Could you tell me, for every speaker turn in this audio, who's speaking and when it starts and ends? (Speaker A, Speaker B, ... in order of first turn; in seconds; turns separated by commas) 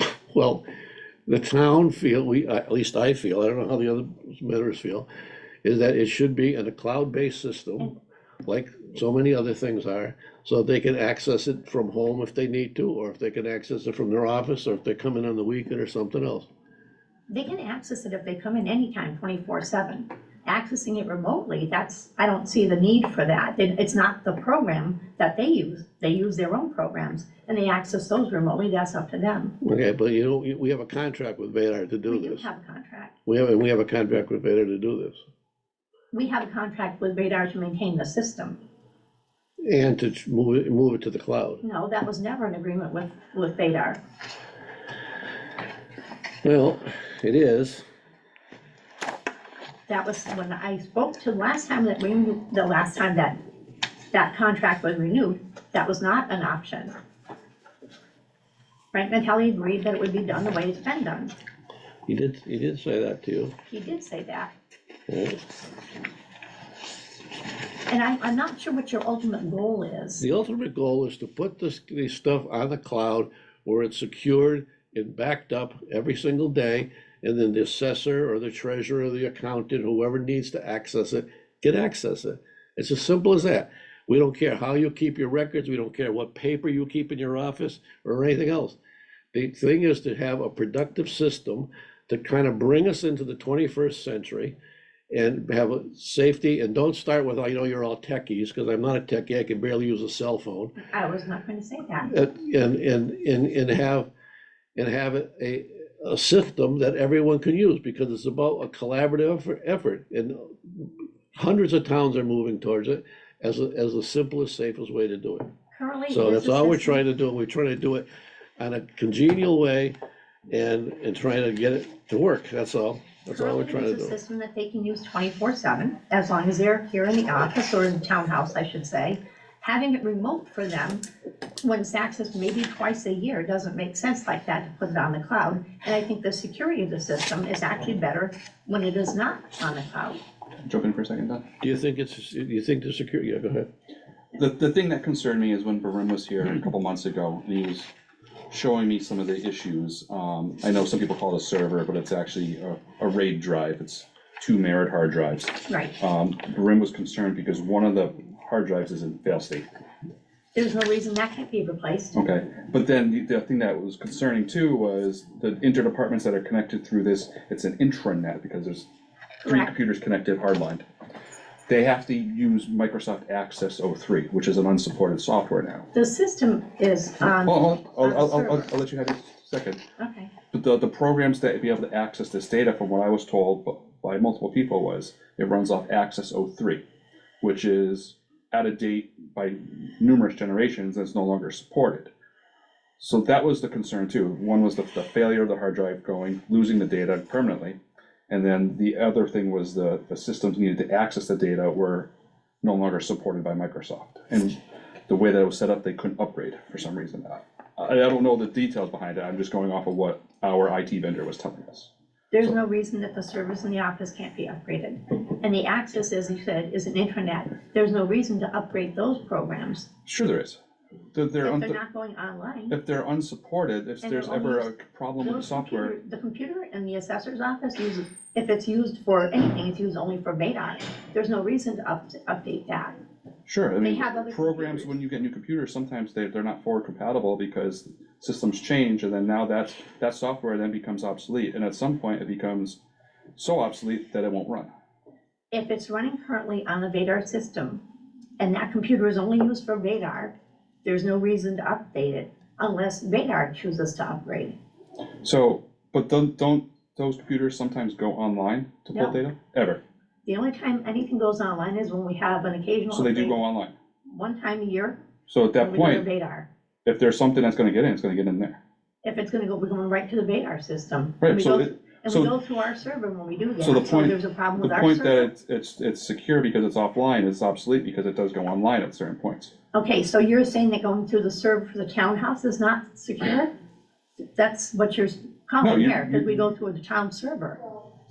Speaker A: 0.3-0.7, Speaker A: 1.3-5.1, Speaker A: 5.6-16.5, Speaker B: 17.3-29.6, Speaker A: 29.6-32.5, Speaker B: 32.1-33.1, Speaker A: 33.3-35.2, Speaker B: 36.1-38.6, Speaker A: 39.6-41.6, Speaker B: 41.6-44.0, Speaker A: 46.4-47.8, Speaker B: 49.9-53.4, Speaker B: 54.1-56.9, Speaker B: 58.9-61.3, Speaker A: 62.1-63.5, Speaker B: 63.7-64.5, Speaker A: 65.1-65.4, Speaker B: 67.9-70.3, Speaker A: 70.2-88.8, Speaker A: 89.3-94.5, Speaker A: 95.1-100.8, Speaker B: 100.8-102.1, Speaker A: 102.1-104.1, Speaker A: 104.8-115.5, Speaker B: 115.7-117.0, Speaker A: 116.1-120.0, Speaker A: 120.5-124.2, Speaker B: 123.3-131.0, Speaker B: 131.6-140.2, Speaker C: 140.7-141.4, Speaker A: 141.6-143.7, Speaker C: 144.3-147.9, Speaker C: 148.5-159.7, Speaker B: 155.7-155.9, Speaker B: 160.6-162.2, Speaker C: 162.2-168.9, Speaker B: 169.4-169.7, Speaker C: 169.4-170.9, Speaker C: 171.7-175.9, Speaker B: 175.9-178.7, Speaker C: 177.2-179.8, Speaker B: 180.0-180.3, Speaker C: 180.5-186.8, Speaker C: 187.4-192.1, Speaker C: 193.0-197.8, Speaker C: 198.3-202.1, Speaker C: 202.6-211.9, Speaker B: 212.3-219.9, Speaker C: 220.1-220.6, Speaker C: 221.1-221.8, Speaker B: 221.4-222.8, Speaker C: 222.7-226.0, Speaker B: 224.0-233.0, Speaker C: 233.5-242.8, Speaker B: 233.8-234.9, Speaker C: 243.4-244.7, Speaker B: 245.5-247.8, Speaker B: 248.4-254.6, Speaker C: 255.2-259.8, Speaker B: 260.3-263.4, Speaker C: 262.9-263.8, Speaker B: 264.1-265.0, Speaker C: 265.3-266.1, Speaker B: 265.6-266.5, Speaker C: 266.9-268.6, Speaker B: 269.0-275.3, Speaker C: 271.2-272.3, Speaker C: 273.6-279.5, Speaker B: 279.7-283.5, Speaker B: 284.4-287.6, Speaker C: 285.6-286.4